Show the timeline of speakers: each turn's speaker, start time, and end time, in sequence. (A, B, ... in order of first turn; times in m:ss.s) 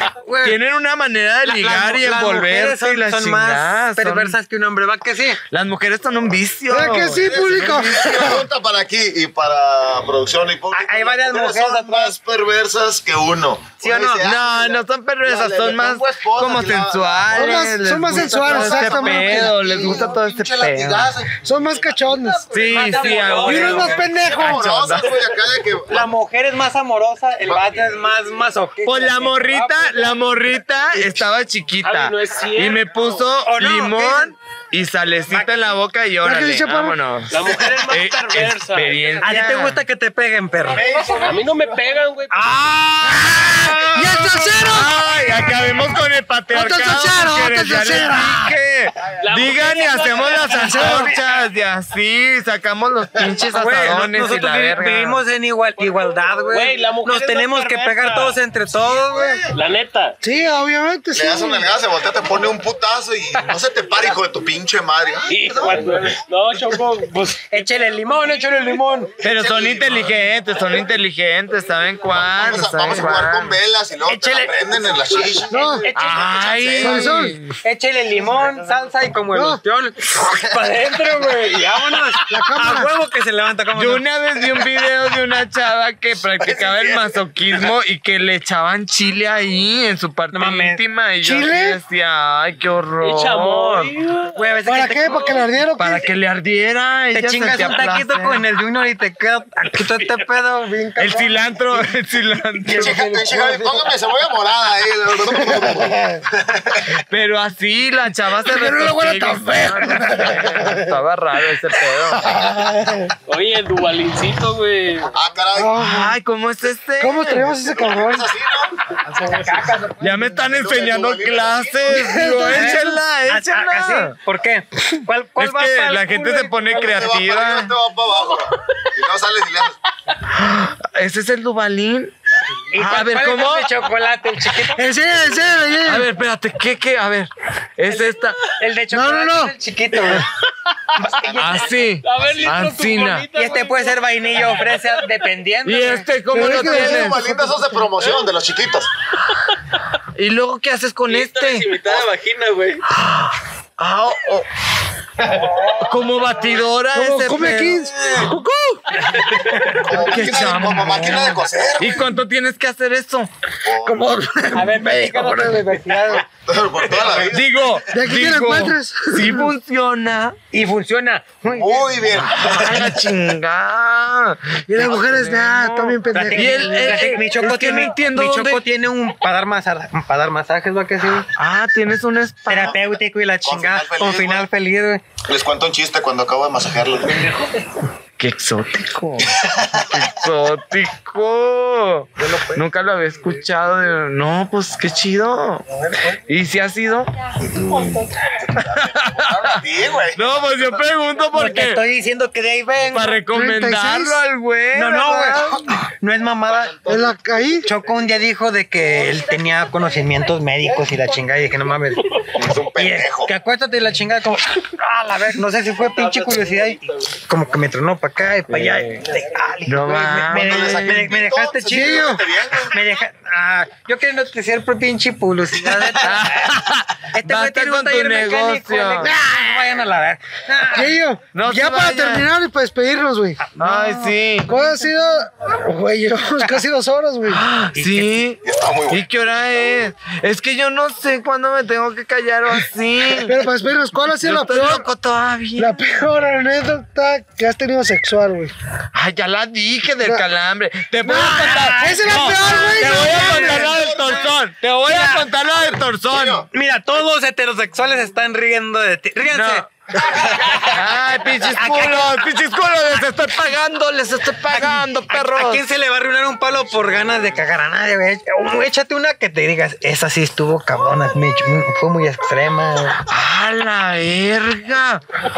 0:00.2-0:00.6 A
0:00.4-0:04.4 B
0:01.4-0:05.4 A
0:05.5-0:08.4 B
0:06.7-0:08.4 C
0:07.1-0:17.7 D
0:10.7-0:12.2 A
0:13.8-0:14.2 A
0:14.2-0:21.2 B
0:17.3-0:20.0 C
0:18.2-0:19.5 A
0:18.4-0:26.1 D
0:21.4-0:22.5 C
0:22.5-0:25.2 B
0:22.6-0:24.1 A
0:22.9-0:23.6 E
0:23.4-0:24.6 C
0:25.9-0:30.2 A
0:28.8-0:39.8 B
0:31.8-0:32.9 E
0:33.4-0:34.4 A
0:35.3-0:35.7 A
0:36.2-0:37.0 C
0:37.3-0:39.1 E
0:39.2-0:40.9 A
0:40.7-0:41.5 D
0:41.1-0:42.5 E
0:42.3-0:44.0 A
0:43.0-0:55.2 B
0:43.9-0:45.5 C
0:46.5-0:48.6 C
0:49.2-0:51.0 E
0:50.6-0:51.2 C
0:53.5-0:59.4 A
0:55.8-0:58.4 E
0:59.5-1:00.2 E
1:00.2-1:01.7 C
1:01.1-1:05.9 D
1:05.3-1:07.5 E
1:07.5-1:09.1 A
1:09.2-1:13.6 B
1:09.2-1:10.2 D
1:12.2-1:17.2 D
1:14.1-1:15.3 A
1:15.5-1:15.9 C
1:15.8-1:16.4 A
1:16.0-1:17.6 B
1:16.8-1:17.4 C
1:17.6-1:24.0 A
1:19.3-1:19.6 C
1:22.3-1:22.9 C
1:23.7-1:33.9 B
1:26.4-1:27.2 D
1:30.3-1:30.8 A
1:31.2-1:31.8 C
1:33.0-1:34.4 E
1:34.4-1:35.4 A
1:34.7-1:36.1 C
1:35.8-1:38.4 B
1:37.1-1:40.9 A
1:40.7-1:41.4 C
1:41.0-1:43.0 B
1:42.6-1:43.9 A
1:42.7-1:46.9 D
1:45.3-1:46.2 C
1:47.1-1:52.3 B
1:48.4-1:51.0 C
1:52.0-1:53.1 C
1:53.3-1:55.1 E
1:55.1-1:55.8 D
1:55.6-1:56.2 C
1:55.8-1:57.5 B
1:57.0-1:58.3 C
1:57.5-1:58.8 D
1:59.1-2:00.2 A
2:00.0-2:04.1 B
2:00.5-2:02.2 D
2:01.9-2:03.0 C
2:02.5-2:07.0 A
2:05.4-2:07.7 B
2:06.7-2:09.8 D
2:10.3-2:12.1 B
2:12.7-2:14.8 A
2:12.8-2:13.8 B
2:14.7-2:16.1 C
2:15.8-2:18.4 B
2:17.9-2:20.3 A
2:18.9-2:19.5 C
2:21.0-2:21.7 A
2:21.0-2:21.8 D
2:21.4-2:23.3 B
2:22.0-2:25.1 E
2:23.4-2:26.1 A
2:25.6-2:27.2 B
2:26.3-2:27.4 C
2:26.6-2:28.9 D
2:30.2-2:32.1 B
2:31.1-2:32.8 E
2:32.8-2:34.5 B
2:35.8-2:38.8 B
2:36.9-2:38.0 C
2:38.0-2:38.3 D
2:39.7-2:42.1 D
2:39.9-2:43.3 B
2:43.6-2:44.1 D
2:43.8-2:45.6 C
2:44.5-2:46.3 A
2:46.1-2:47.8 D
2:47.3-2:50.4 B
2:47.9-2:49.5 C
2:50.5-2:52.0 A
2:51.5-2:53.0 D
2:52.3-2:58.6 B
2:54.7-2:57.1 C
2:56.1-3:01.3 A
3:01.4-3:02.8 B
3:02.5-3:05.0 A
3:02.6-3:04.5 D
3:05.2-3:07.5 D
3:08.2-3:15.6 B
3:09.3-3:10.0 D
3:16.3-3:18.0 B
3:18.4-3:20.5 D
3:18.6-3:19.6 B
3:20.2-3:21.8 B
3:21.3-3:23.2 A
3:22.9-3:25.4 B
3:23.3-3:24.2 C
3:24.7-3:26.9 A
3:25.3-3:25.6 C
3:26.6-3:27.1 D
3:26.9-3:27.7 C
3:27.6-3:32.2 A
3:32.3-3:33.3 D
3:32.7-3:42.1 A
3:36.2-3:36.7 E
3:38.5-3:39.1 B
3:39.7-3:41.1 B
3:40.3-3:42.8 D
3:41.7-3:42.2 C
3:42.7-3:46.4 A
3:46.0-3:49.1 B
3:47.1-3:51.0 A
3:50.7-3:53.4 C
3:51.3-3:52.3 B
3:53.5-3:54.2 A
3:53.6-3:54.6 B
3:54.5-3:57.4 C
3:57.3-4:03.4 B
3:57.8-3:58.2 A
3:58.4-3:59.0 D
4:03.2-4:04.9 C
4:04.2-4:05.8 B
4:05.6-4:08.5 C
4:08.9-4:16.5 B
4:11.0-4:13.8 C
4:11.3-4:13.2 A
4:13.0-4:14.4 D
4:14.9-4:16.5 D
4:16.5-4:20.7 A
4:19.3-4:19.6 B
4:20.6-4:25.6 B
4:21.4-4:22.2 A
4:24.5-4:33.0 A
4:33.1-4:35.0 B